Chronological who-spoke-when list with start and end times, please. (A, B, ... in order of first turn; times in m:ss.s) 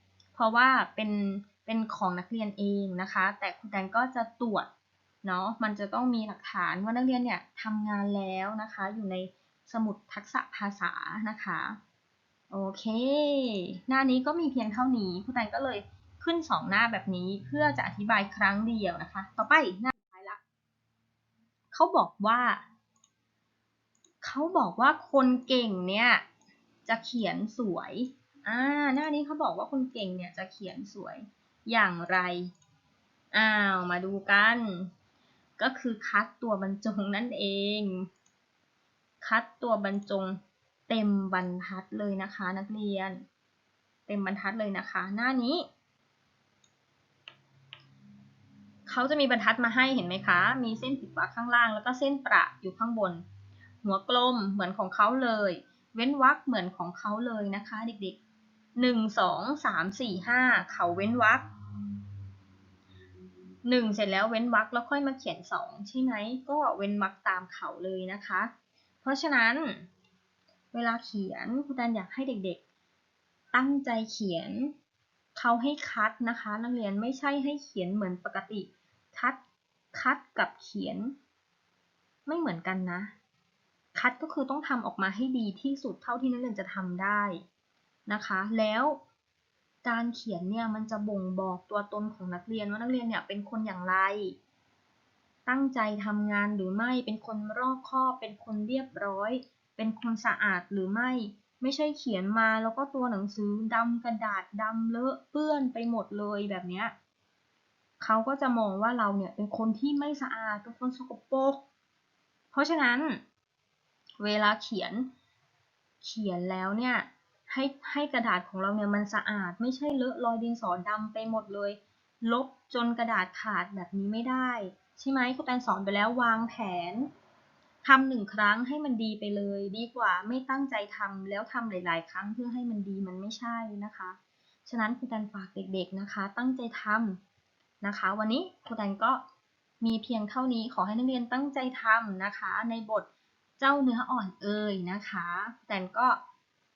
0:00.4-0:04.7 A
0:05.2-0:11.8 A
0:12.5-0:20.4 A
0:21.7-0:22.6 A
0:24.2-0:26.2 A
0:26.9-0:32.5 A
0:33.3-0:34.9 A
0:35.6-0:38.1 A
0:39.2-0:43.2 A
0:44.1-0:45.7 A
0:48.9-0:53.2 A
0:53.8-0:58.2 A
0:58.8-1:01.4 A
1:03.6-1:08.5 A
1:09.0-1:09.9 A
1:10.7-1:12.6 A
1:13.5-1:14.7 A
1:15.4-1:19.4 A
1:19.9-1:21.1 A
1:22.3-1:23.1 A
1:24.0-1:27.4 A
1:28.1-1:29.0 A
1:29.8-1:34.4 A
1:35.5-1:46.9 A
1:48.0-1:51.6 A
1:52.5-1:53.2 A
1:54.2-1:55.1 A
1:56.0-2:07.1 A
2:07.8-2:17.2 A
2:17.8-2:19.2 A
2:19.8-2:23.1 A
2:23.6-2:26.2 A